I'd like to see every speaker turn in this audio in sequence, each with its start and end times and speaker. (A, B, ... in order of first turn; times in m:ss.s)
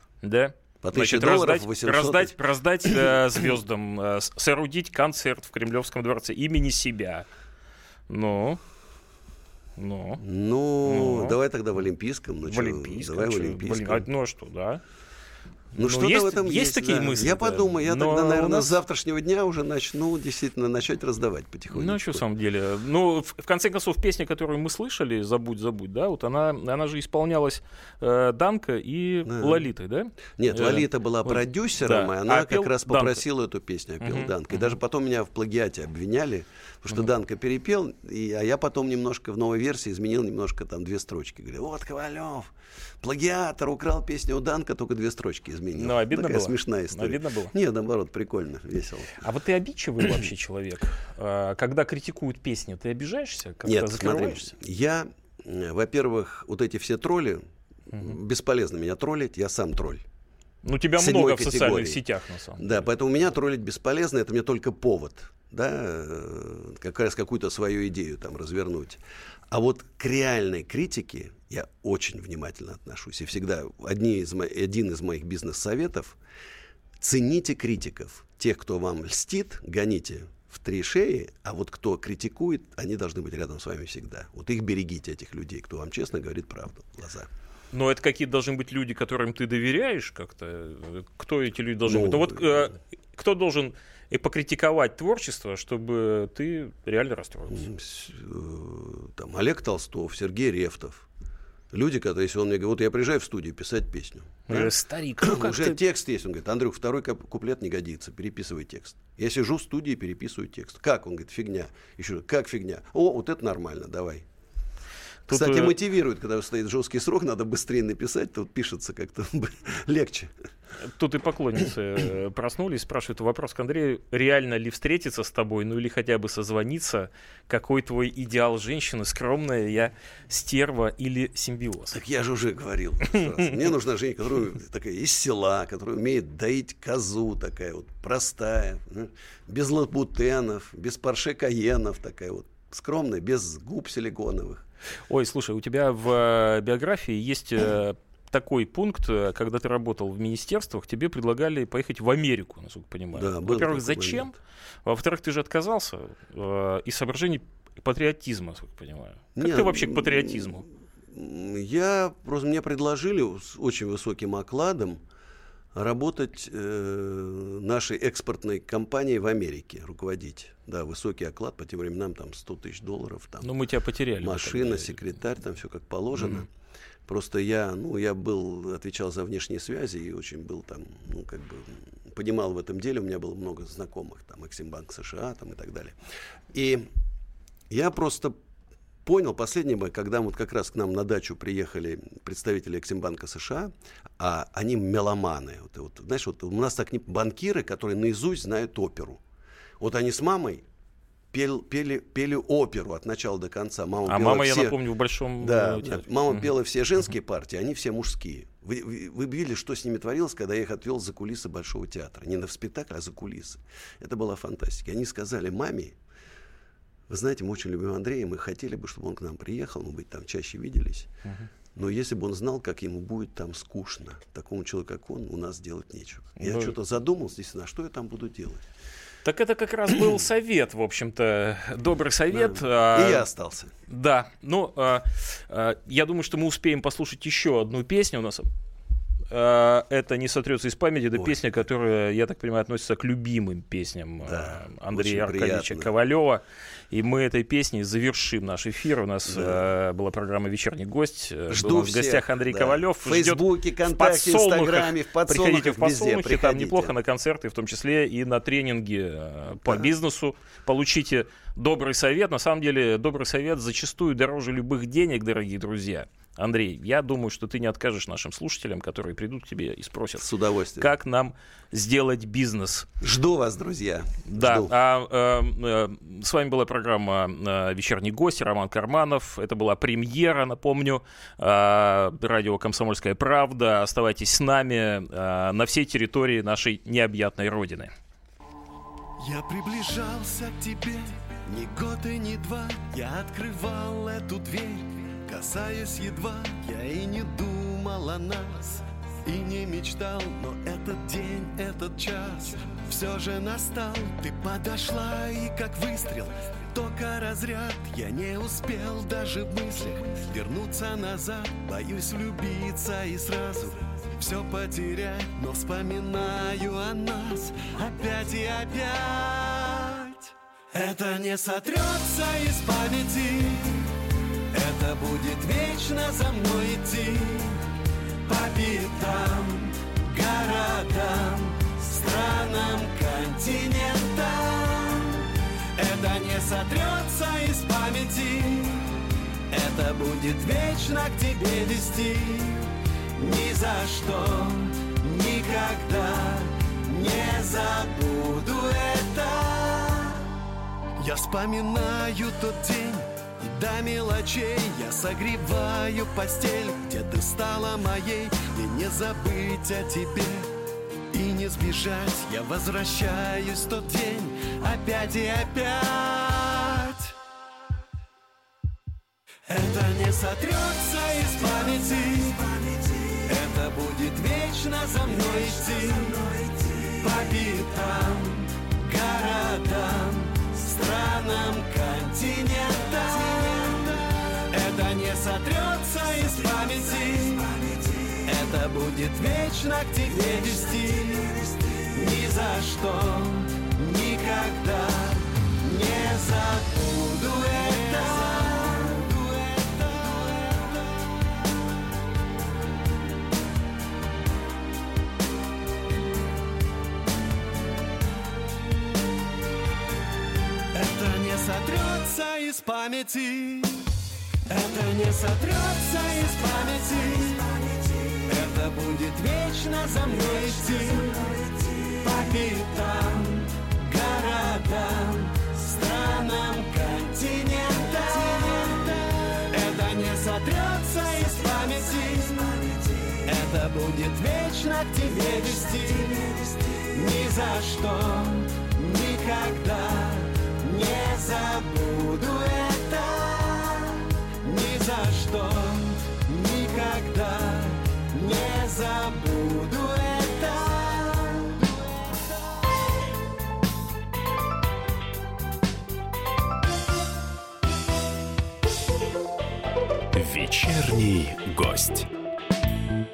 0:00.2-0:07.3 A
0:00.8-0:02.4 B
0:08.1-0:08.6 A
0:09.8-0:10.2 A
0:10.2-0:14.1 B
0:10.8-0:11.3 A
0:12.4-0:14.8 A
0:15.7-0:22.2 B
0:15.8-0:18.8 A
0:21.7-0:33.2 A
0:29.2-0:29.7 B
0:30.4-0:49.2 B
0:34.0-0:34.7 A
0:45.8-0:47.5 A
0:49.2-0:54.5 A
0:53.6-0:57.4 B
0:57.9-1:00.0 B
1:00.6-1:02.8 A
1:01.0-1:02.0 B
1:02.6-1:16.2 B
1:17.0-1:27.3 B
1:27.7-1:37.6 A
1:31.8-1:32.7 B
1:37.5-1:41.0 B
1:41.7-1:54.2 B
1:44.5-1:45.8 A
1:55.3-1:55.7 A
1:55.3-2:00.3 B
2:00.8-2:12.0 A
2:11.9-2:24.6 B
2:25.1-2:34.3 A
2:33.1-2:34.4 B
2:34.8-2:40.6 A
2:39.4-2:45.0 B
2:45.7-2:53.5 B
2:53.4-2:55.0 A
2:54.2-2:56.5 B
2:56.2-2:56.4 A
2:57.1-3:06.0 B
3:06.5-3:06.8 B
3:07.7-3:08.4 B
3:09.0-3:19.2 B
3:19.8-3:20.6 B
3:21.3-3:24.8 B
3:24.0-3:26.5 A
3:25.4-3:36.0 B
3:37.1-3:41.1 B
3:41.7-3:48.6 B
3:46.4-3:46.7 A
3:49.2-3:53.3 A
3:52.3-3:53.7 B
3:53.9-3:58.5 A
3:59.3-4:30.3 A
4:01.1-4:01.4 B
4:04.2-4:05.9 B
4:09.3-4:09.6 B
4:11.5-4:16.9 B
4:30.2-4:30.9 B
4:30.8-4:32.9 A
4:33.0-4:34.7 B
4:34.3-4:47.9 A
4:49.2-4:53.4 B
4:49.5-4:50.8 C
4:53.1-4:54.7 C
4:54.0-5:02.9 B
4:56.5-4:58.4 C
4:59.3-5:00.3 C
5:02.8-5:06.1 C
5:05.8-5:06.8 B
5:06.8-5:20.2 C
5:10.0-5:11.6 B
5:20.7-5:23.9 C
5:24.5-5:27.6 C
5:28.2-5:35.2 C
5:35.8-5:38.9 C
5:39.5-5:50.3 C
5:51.0-6:00.5 C
6:01.1-6:07.1 C
6:09.5-6:41.2 C
6:50.7-6:53.8 C
6:54.5-7:32.1 C
7:40.1-7:42.1 D